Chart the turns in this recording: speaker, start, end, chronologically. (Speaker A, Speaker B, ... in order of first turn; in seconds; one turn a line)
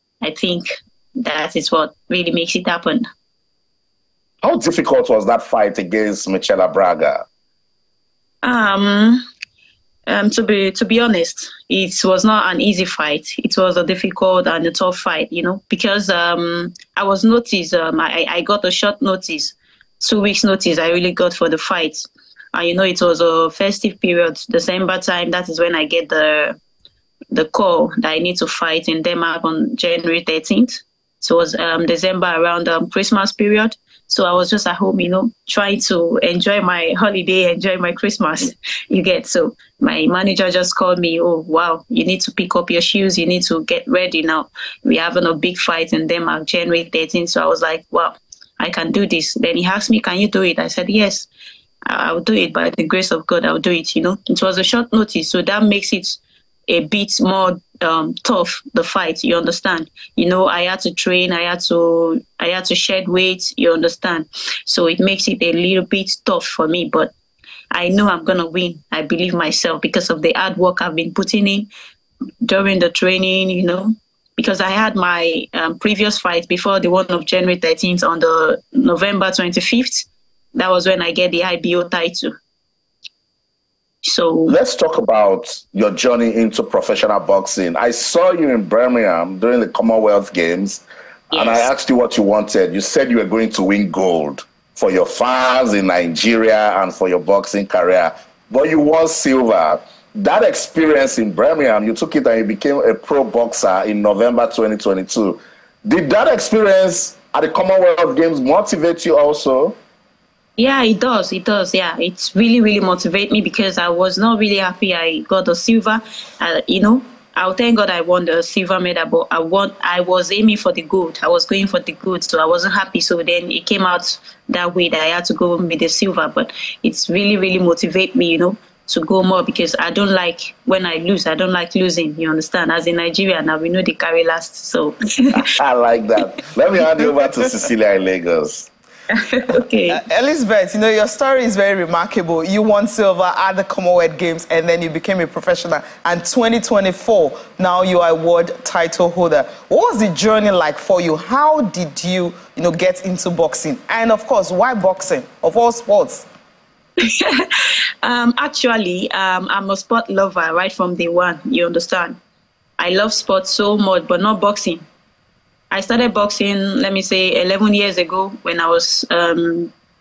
Speaker A: 0.2-3.1
Speaker B: 4.4-7.2
Speaker A: 8.4-9.2
Speaker A: 10.1-26.6
Speaker A: 27.3-51.3
Speaker A: 51.9-67.1
Speaker A: 67.7-71.7
Speaker A: 72.4-82.3
Speaker A: 84.0-84.5
Speaker B: 84.5-109.8
Speaker A: 91.3-91.7
Speaker A: 110.6-135.4
Speaker B: 135.3-138.7
Speaker A: 139.1-140.0
Speaker C: 139.9-156.2
Speaker A: 157.0-162.2
Speaker A: 162.8-164.8
Speaker A: 165.7-169.7